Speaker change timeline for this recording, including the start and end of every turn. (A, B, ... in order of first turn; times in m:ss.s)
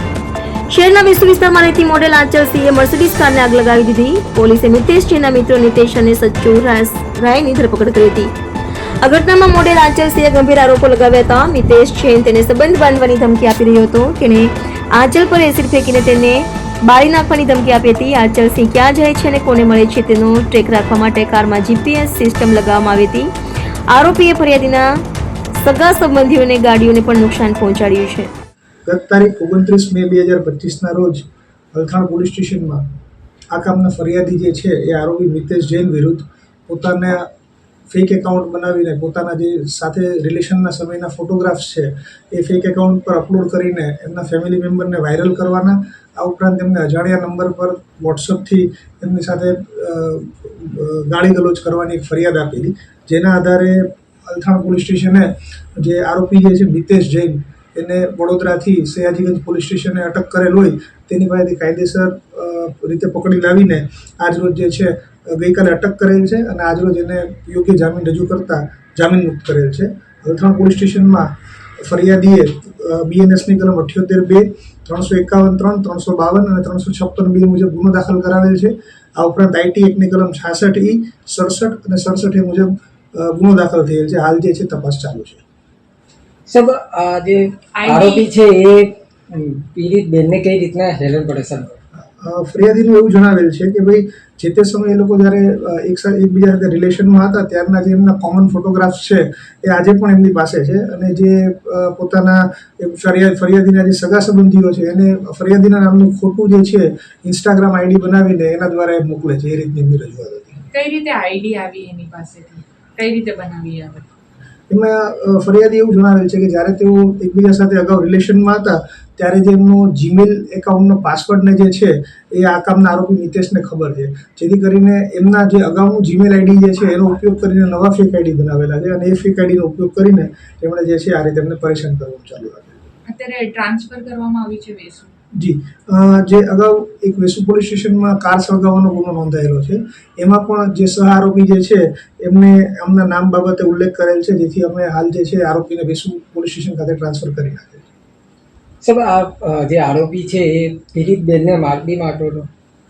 0:00.7-0:08.3 A
0:09.0-0:23.3 A
0:23.9-0:24.9 A
0:25.6-0:28.3 A
0:28.9-0:32.8 B
0:33.5-0:37.3 B
0:37.9-1:25.4 B
1:26.5-1:31.8 C
1:27.8-1:28.3 D
1:32.0-1:50.6 B
1:50.7-1:54.0 D
1:54.7-2:12.8 B
2:13.1-2:15.1 D
2:15.4-2:27.8 B
2:28.8-2:32.5 C